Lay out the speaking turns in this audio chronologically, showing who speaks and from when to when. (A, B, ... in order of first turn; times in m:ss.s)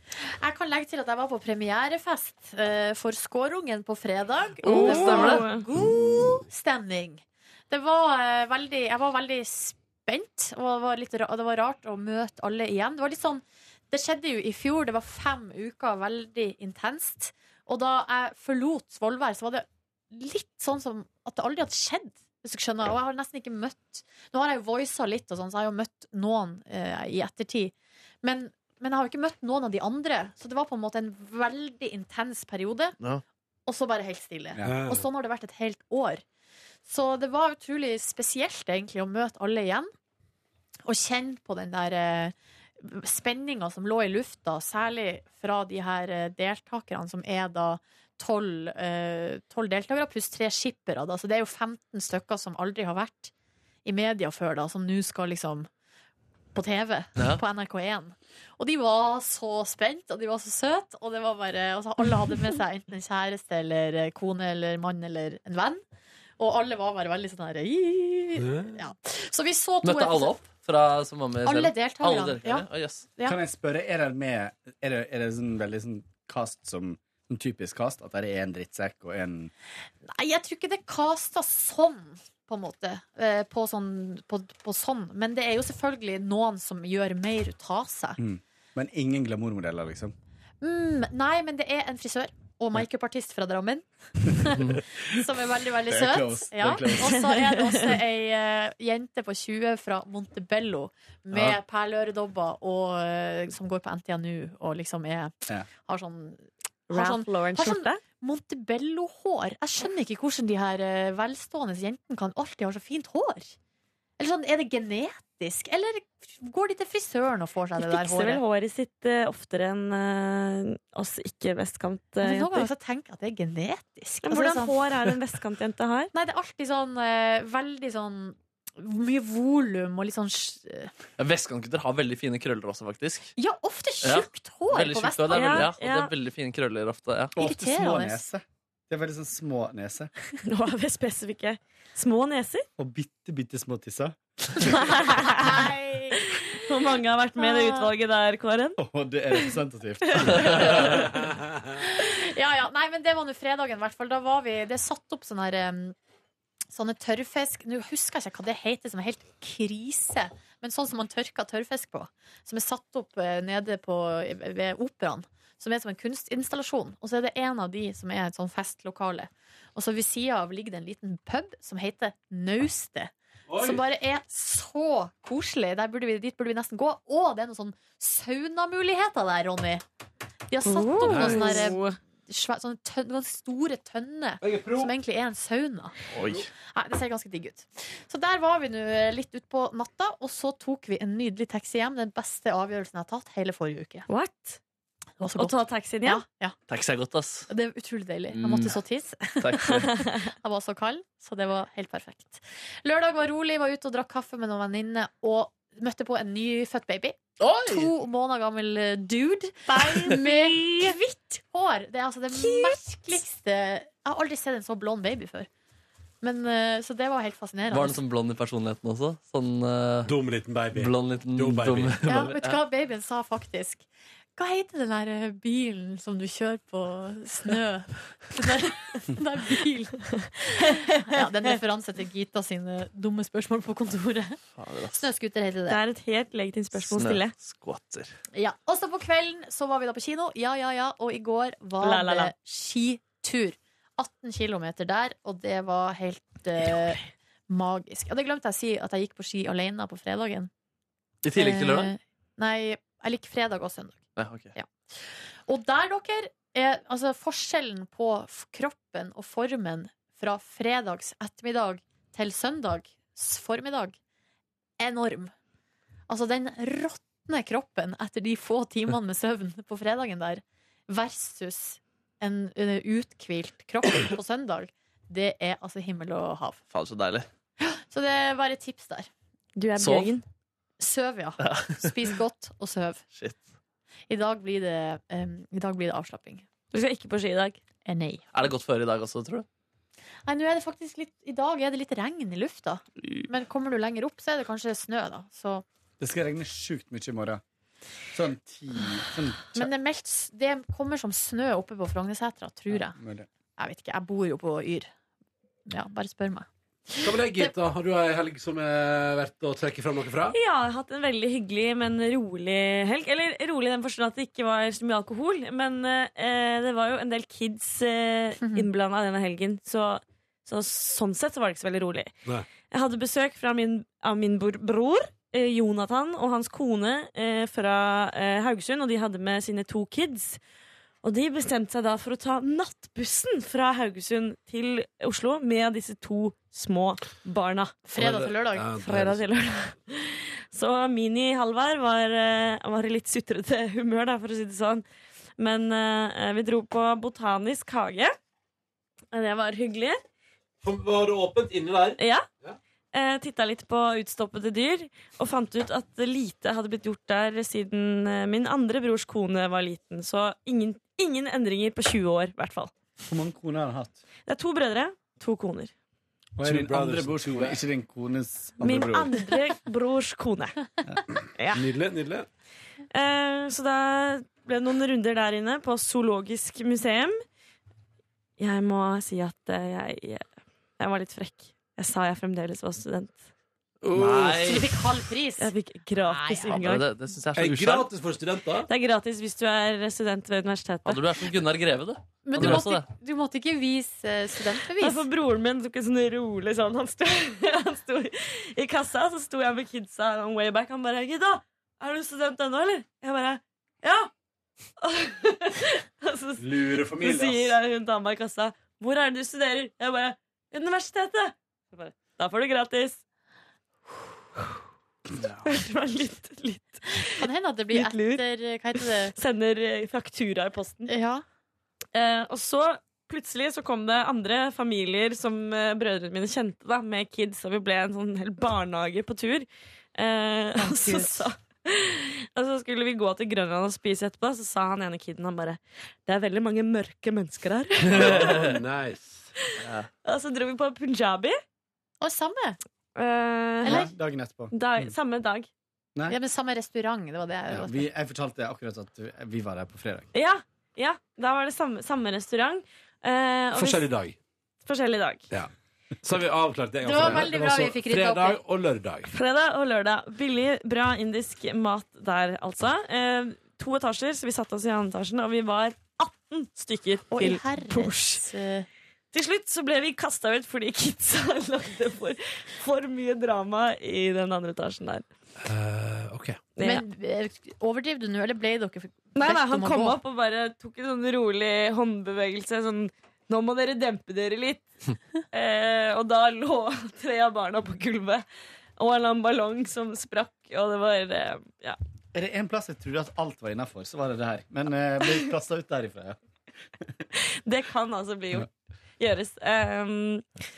0:00.4-0:33.0 A
0:04.6-0:05.7 B
0:04.8-0:05.4 C
0:33.7-0:36.2 A
0:34.6-0:35.0 D
0:36.8-0:39.9 A
0:40.8-0:53.3 A
0:53.8-0:55.7 A
0:56.5-1:05.8 A
1:06.4-1:10.4 A
1:08.4-1:08.8 D
1:09.8-1:13.1 C
1:11.4-1:13.4 A
1:13.2-1:19.5 E
1:20.1-1:28.2 A
1:28.2-1:30.1 E
1:30.6-1:53.5 A
1:35.9-1:37.2 E
1:37.0-1:38.0 B
1:46.9-1:48.0 B
1:54.2-1:58.4 A
1:57.8-2:02.7 B
2:02.2-2:05.1 A
2:04.2-2:06.1 B
2:06.1-2:10.9 A
2:11.2-2:13.3 C
2:13.4-2:15.7 A
2:14.0-2:17.3 C
2:15.3-2:16.1 B
2:17.4-2:20.1 E
2:17.4-2:18.3 A
2:20.4-2:22.6 B
2:22.8-2:24.6 E
2:24.7-2:25.7 B
2:24.9-2:26.2 A
2:26.5-2:28.8 B
2:27.4-2:27.9 A
2:28.8-2:30.9 E
2:30.0-2:31.0 B
2:30.3-2:31.2 A
2:31.8-2:35.9 A
2:36.7-2:59.8 A
2:53.5-2:53.8 D
3:00.5-3:06.0 A
3:00.6-3:02.0 B
3:01.1-3:01.6 D
3:04.4-3:04.9 D
3:06.2-3:06.4 D
3:06.7-3:14.0 A
3:14.1-3:14.6 B
3:15.2-3:16.6 A
3:15.3-3:16.2 B
3:16.7-3:17.5 C
3:17.5-3:35.5 A
3:18.3-3:18.8 C
3:19.4-3:19.9 C
3:19.9-3:20.3 B
3:27.4-3:27.9 C
3:30.0-3:31.0 B
3:32.3-3:33.0 B
3:36.2-3:38.0 A
3:37.7-3:40.1 C
3:40.0-3:42.3 D
3:40.7-3:42.6 C
3:42.0-3:43.8 A
3:44.4-3:54.4 A
3:54.6-3:55.0 C
3:55.0-3:55.8 A
3:55.7-3:57.3 B
3:56.8-3:58.2 C
3:58.3-4:10.5 A
4:01.8-4:02.3 B
4:11.2-4:11.9 C
4:11.4-4:14.0 A
4:14.2-4:14.5 C
4:14.5-4:24.0 A
4:24.8-4:25.3 A
4:26.1-4:36.6 A
4:36.7-4:37.3 C
4:37.6-4:39.1 A
4:39.6-4:40.2 B
4:39.8-4:40.1 C
4:40.8-4:43.0 A
4:41.4-4:41.9 C
4:44.1-4:46.4 A
4:46.7-4:47.6 B
4:47.8-4:48.3 A
4:48.3-4:49.4 C
4:50.2-4:55.6 A
4:56.0-4:57.4 E
4:58.1-4:59.7 E
4:59.5-5:03.0 A
5:02.7-5:03.3 E
5:03.6-5:04.9 A
5:05.7-5:07.5 A
5:07.0-5:10.3 D
5:10.3-5:22.1 B
5:18.4-5:18.6 A
5:22.7-5:30.4 B
5:31.0-5:37.8 B
5:37.8-5:38.7 A
5:38.0-5:39.2 D
5:38.8-5:44.8 B
5:45.4-5:48.1 B
5:49.1-5:50.0 B
5:50.6-5:52.6 D
5:52.0-5:52.2 B
5:52.9-6:02.7 B
6:03.0-6:04.0 E
6:04.2-6:05.7 B
6:06.4-6:09.2 E
6:06.4-6:07.6 D
6:08.6-6:10.6 B
6:11.4-6:11.6 B
6:11.5-6:12.3 D
6:12.9-6:17.2 B
6:18.4-6:20.2 B
6:20.8-6:23.2 B
6:23.8-6:24.6 D
6:23.9-6:24.8 C
6:24.4-6:25.5 A
6:25.4-6:26.9 B
6:26.1-6:26.6 A
6:26.5-6:27.9 C
6:27.4-6:28.7 D
6:28.7-6:31.0 B
6:30.8-6:32.8 C
6:32.2-6:35.0 A
6:34.8-6:44.1 B
6:44.8-6:53.0 B
6:46.4-6:47.6 D
6:55.4-7:00.9 B
6:57.0-6:59.1 A
7:00.9-7:01.2 A
7:01.9-7:18.4 B
7:10.6-7:11.2 A
7:17.9-7:18.6 C
7:17.9-7:19.3 D
7:20.0-7:21.4 B
7:22.0-7:22.6 A
7:23.0-7:23.9 B
7:23.6-7:23.9 A
7:23.7-7:24.9 E
7:24.5-7:25.5 B
7:26.1-7:27.8 A
7:27.5-7:30.1 E
7:30.1-7:33.8 B
7:33.6-7:34.2 D
7:34.6-7:35.3 B
7:36.0-7:39.1 D
7:36.8-7:38.4 A
7:39.1-7:48.2 B
7:47.1-7:48.7 A
7:49.1-7:55.0 B
7:55.4-7:56.4 D
7:56.6-7:56.8 B
7:56.6-8:00.0 A
7:59.1-8:04.7 B
8:05.3-8:08.2 B
8:08.8-8:11.8 B
8:12.1-8:16.2 E
8:17.4-8:18.5 B
8:19.0-8:20.2 B